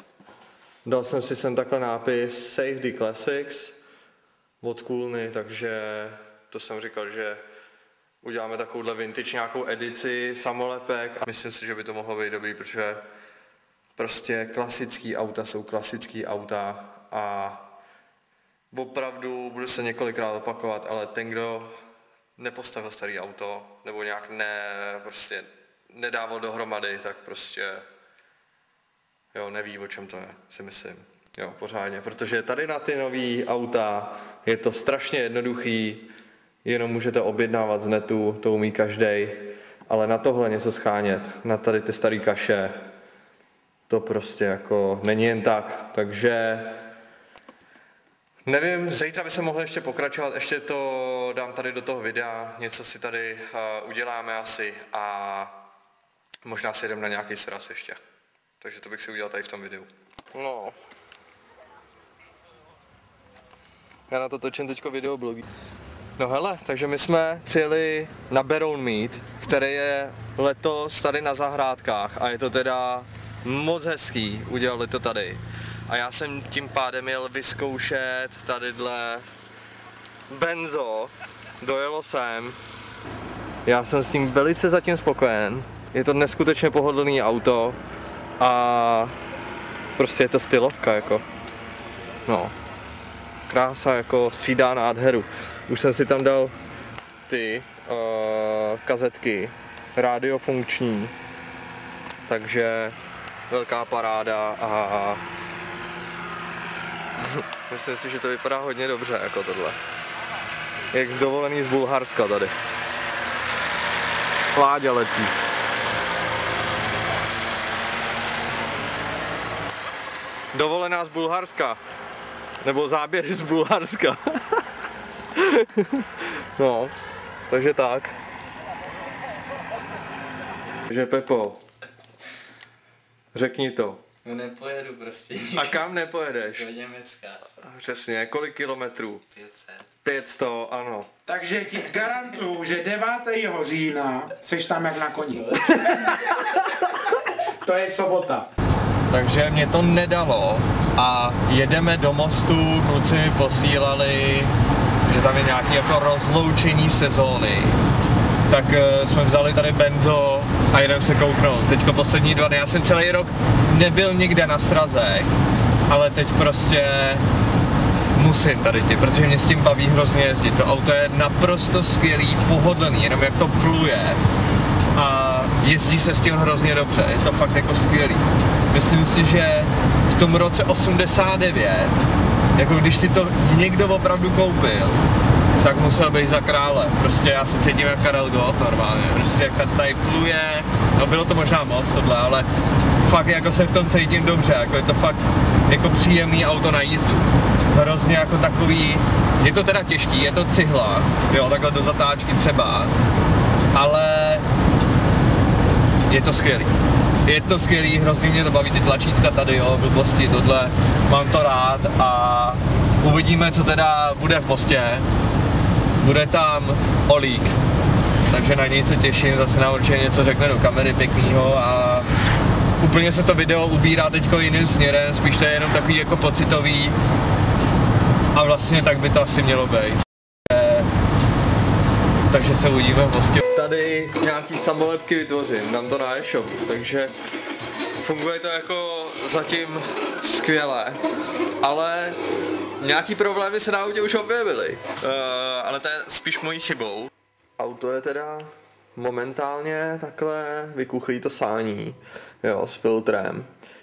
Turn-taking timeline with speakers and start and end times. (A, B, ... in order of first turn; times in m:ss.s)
0:00.8-0:03.8 A
0:04.6-0:07.4 A
0:08.2-0:13.1 A
0:14.0-0:17.7 A
0:18.7-0:21.7 A
0:22.4-0:27.8 A
0:29.3-0:36.1 A
0:36.6-0:42.8 A
0:43.9-0:46.9 A
0:48.5-0:55.6 A
0:56.4-0:58.0 A
0:58.6-1:00.8 A
1:04.1-1:05.4 A
1:06.2-1:19.3 A
1:20.3-1:22.6 A
1:23.7-1:27.8 A
1:28.4-1:29.2 A
1:30.0-1:31.2 A
1:32.3-1:32.5 A
1:33.5-1:36.5 A
1:37.3-1:41.1 A
1:42.3-1:43.0 A
1:43.5-1:45.2 A
1:47.3-1:49.8 A
1:50.9-1:52.5 A
1:54.6-1:55.4 A
2:00.5-2:01.8 A
2:02.6-2:04.6 A
2:05.4-2:06.9 A
2:07.5-2:08.2 A
2:10.9-2:11.6 A
2:13.3-2:14.1 A
2:14.2-2:15.9 B
2:15.5-2:16.7 A
2:16.6-2:17.5 B
2:17.6-2:19.2 A
2:19.3-2:19.9 B
2:20.0-2:21.1 A
2:21.3-2:26.4 C
2:25.8-2:26.4 A
2:27.6-2:28.5 C
2:29.1-2:34.5 A
2:35.1-2:37.8 A
2:38.5-2:45.3 A
2:45.9-2:47.2 A
2:48.2-2:54.2 A
2:54.9-3:02.0 A
3:02.6-3:05.0 A
3:05.6-3:23.0 A
3:23.7-3:24.4 A
3:26.1-3:35.1 A
3:36.0-3:37.6 A
3:38.3-3:42.1 A
3:42.8-3:47.0 A
3:48.3-3:50.9 A
3:52.3-3:57.1 A
3:58.0-4:01.0 A
4:01.6-4:02.2 A
4:02.8-4:13.5 A